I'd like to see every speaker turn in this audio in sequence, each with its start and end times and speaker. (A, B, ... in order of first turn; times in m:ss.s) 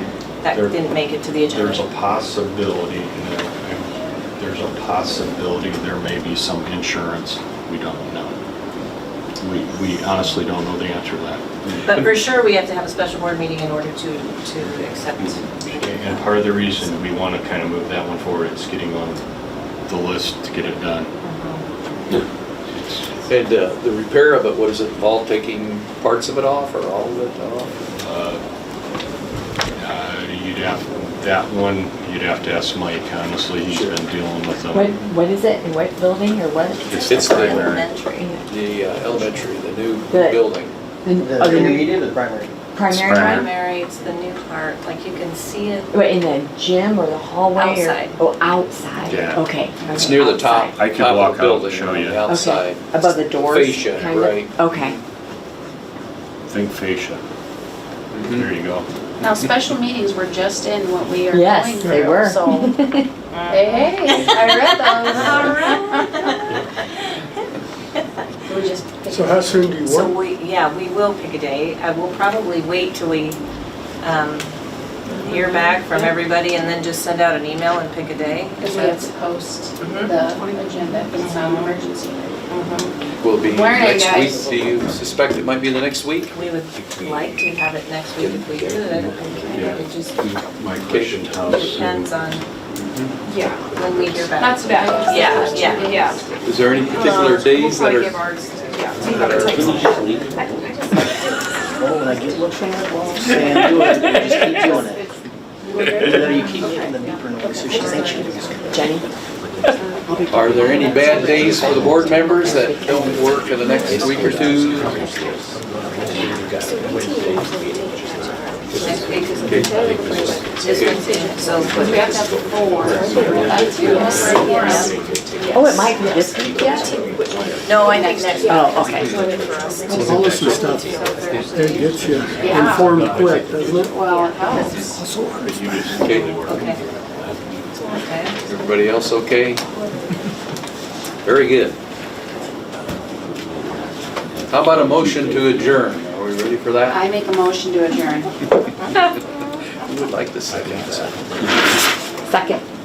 0:00.4-0:01.8 A
0:00.5-0:00.8 B
0:01.5-0:08.4 B
0:09.4-0:12.2 B
0:11.8-0:16.9 A
0:15.2-0:19.2 B
0:19.9-0:21.1 B
0:21.2-0:21.6 A
0:22.7-0:23.1 B
0:23.3-0:27.7 C
0:28.0-0:28.4 B
0:29.8-0:35.0 B
0:33.7-0:34.0 C
0:34.7-0:38.4 D
0:36.8-0:37.9 B
0:37.0-0:38.3 A
0:37.1-0:37.7 C
0:38.5-0:40.7 C
0:40.1-0:40.4 D
0:41.0-0:42.0 D
0:41.2-0:42.5 E
0:42.7-0:43.5 D
0:42.9-0:43.5 B
0:43.0-0:45.9 A
0:45.9-0:50.8 D
0:47.6-0:48.2 A
0:49.0-0:49.4 B
0:49.9-0:53.0 C
0:50.8-0:52.2 B
0:52.3-0:55.0 D
0:53.5-0:54.6 C
0:56.5-0:57.2 B
0:58.1-0:58.5 C
0:58.2-0:58.9 B
0:59.2-1:02.8 F
1:01.3-1:03.1 D
1:03.3-1:08.0 A
1:03.5-1:06.4 F
1:08.5-1:09.5 F
1:09.3-1:10.1 G
1:09.8-1:13.4 A
1:14.0-1:14.6 A
1:15.2-1:19.0 A
1:18.6-1:24.5 F
1:19.8-1:20.1 A
1:21.2-1:21.6 A
1:23.2-1:26.3 C
1:26.3-1:30.2 A
1:29.5-1:32.1 B
1:30.8-1:31.4 C
1:31.4-1:32.5 A
1:32.8-1:33.1 C
1:33.2-1:33.7 H
1:33.7-1:36.0 A
1:34.4-1:36.3 F
1:34.6-1:36.2 H
1:36.4-1:38.2 C
1:37.0-1:40.0 H
1:39.0-1:39.9 C
1:39.6-1:39.9 E
1:41.8-1:45.1 E
1:45.8-1:49.0 E
1:48.7-1:49.1 D
1:50.1-1:53.3 D
1:50.3-1:55.0 C
1:58.8-2:02.2 A
2:01.8-2:05.9 F
2:03.8-2:04.9 A
2:05.5-2:07.0 D
2:07.6-2:09.2 A
2:07.8-2:08.5 F
2:08.5-2:09.1 D
2:09.9-2:12.7 A
2:09.9-2:10.8 G
2:10.3-2:10.8 H
2:11.8-2:13.7 G
2:12.4-2:13.1 F
2:13.2-2:13.8 H
2:13.9-2:14.9 F
2:14.0-2:14.3 A
2:15.4-2:16.3 B
2:16.0-2:16.6 C
2:16.5-2:16.8 A
2:17.9-2:18.3 A
2:18.4-2:19.6 C
2:21.2-2:21.8 C
2:24.5-2:27.0 C
2:26.9-2:28.3 F
2:29.8-2:31.2 C
2:30.5-2:31.8 B
2:32.3-2:32.6 D